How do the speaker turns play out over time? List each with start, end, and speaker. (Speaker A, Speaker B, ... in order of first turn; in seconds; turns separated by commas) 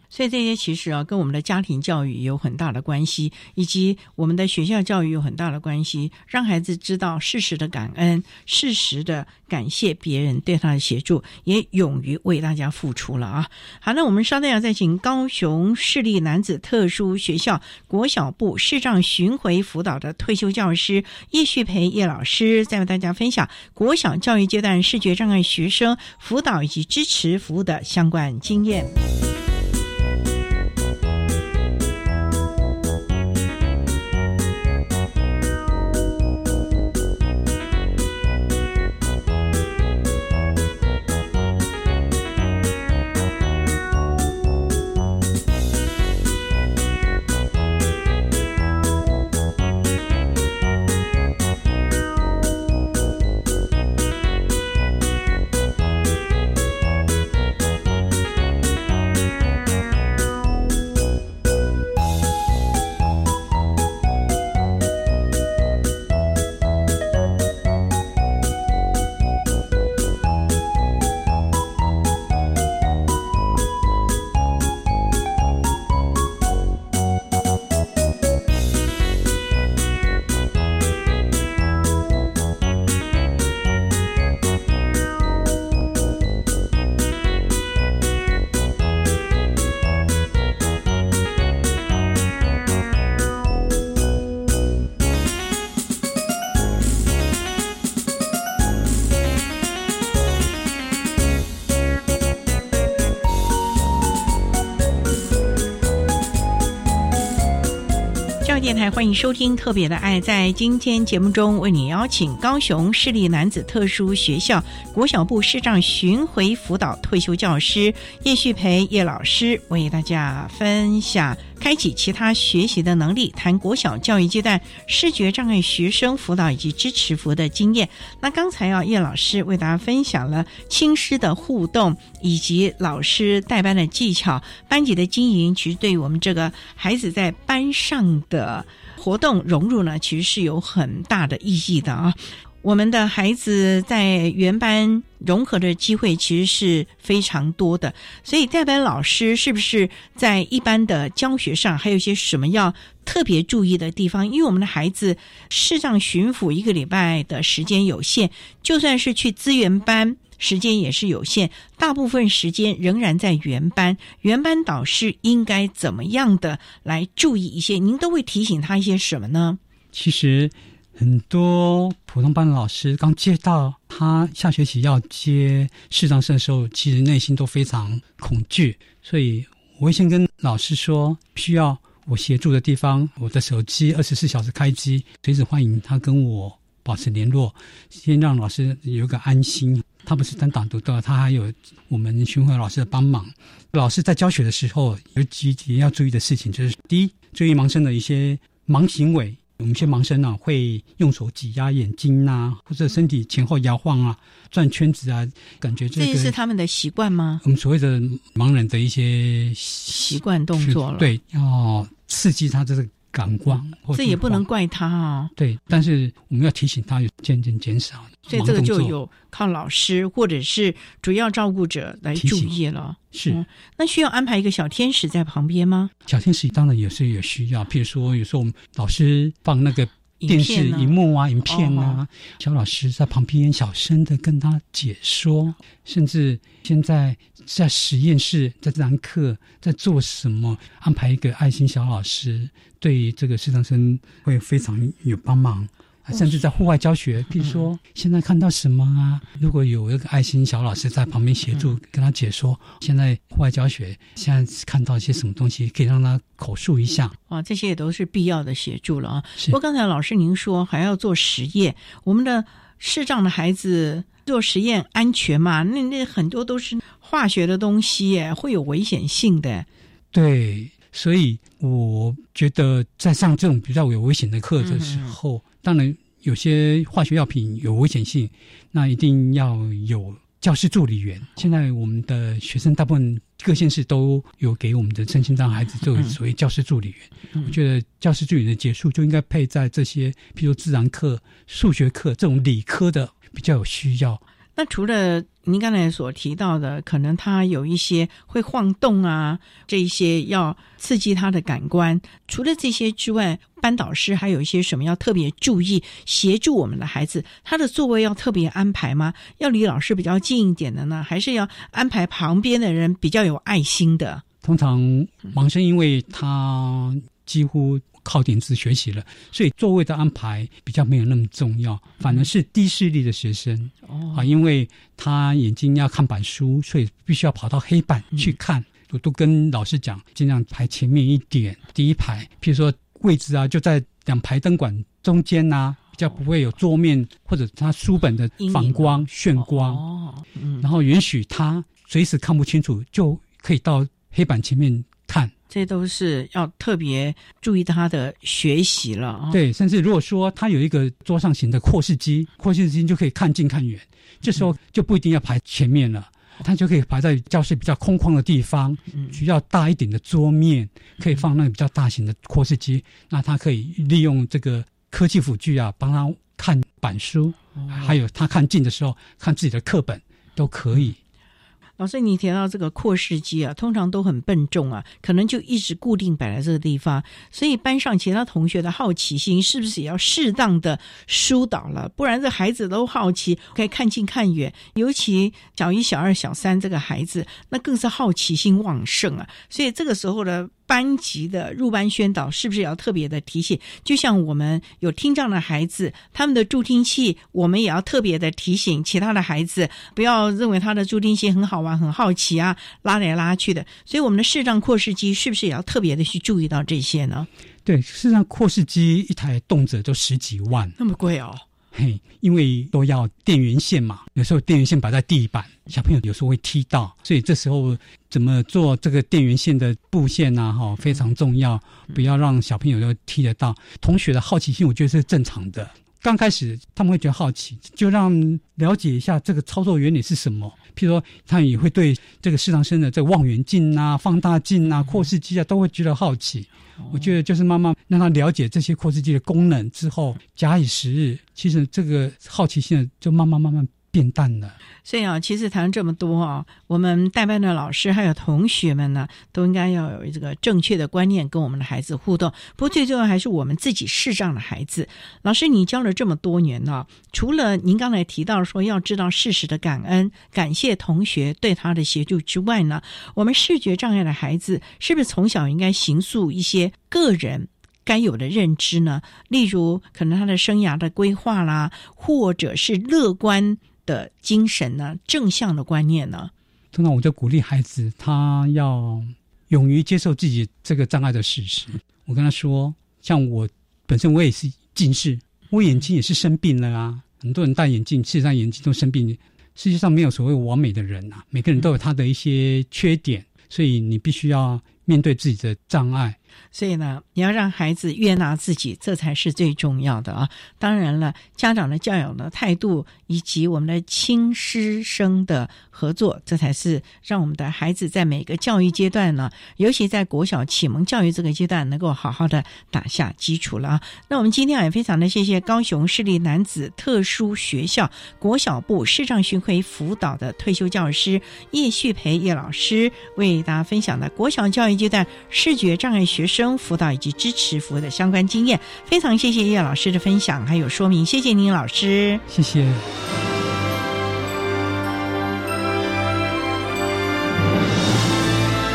Speaker A: 0.1-28.9, Speaker A: 108.4-169.6, Speaker B: 169.9-206.3, Speaker A: 206.0-207.4, Speaker B: 207.4-214.4, Speaker A: 209.9-211.1, Speaker A: 213.9-215.3, Speaker B: 215.4-218.9, Speaker A: 218.3-225.9, Speaker B: 222.2-222.5, Speaker B: 223.1-223.4, Speaker B: 226.1-257.1, Speaker A: 230.2-230.9, Speaker A: 231.4-232.0, Speaker A: 257.3-269.7, Speaker B: 270.1-294.2, Speaker A: 274.6-275.1, Speaker A: 294.6-314.2, Speaker B: 314.4-339.8, Speaker A: 323.9-324.3, Speaker A: 338.4-340.6, Speaker B: 340.6-345.3, Speaker A: 345.5-349.4, Speaker B: 349.3-371.0, Speaker A: 367.6-367.9, Speaker A: 371.8-407.3, Speaker B: 407.6-410.8, Speaker A: 410.8-411.4, Speaker B: 411.7-444.6, Speaker A: 436.8-437.1, Speaker A: 444.8-476.3, Speaker B: 476.7-496.2, Speaker A: 496.5-532.2, Speaker B: 532.3-532.8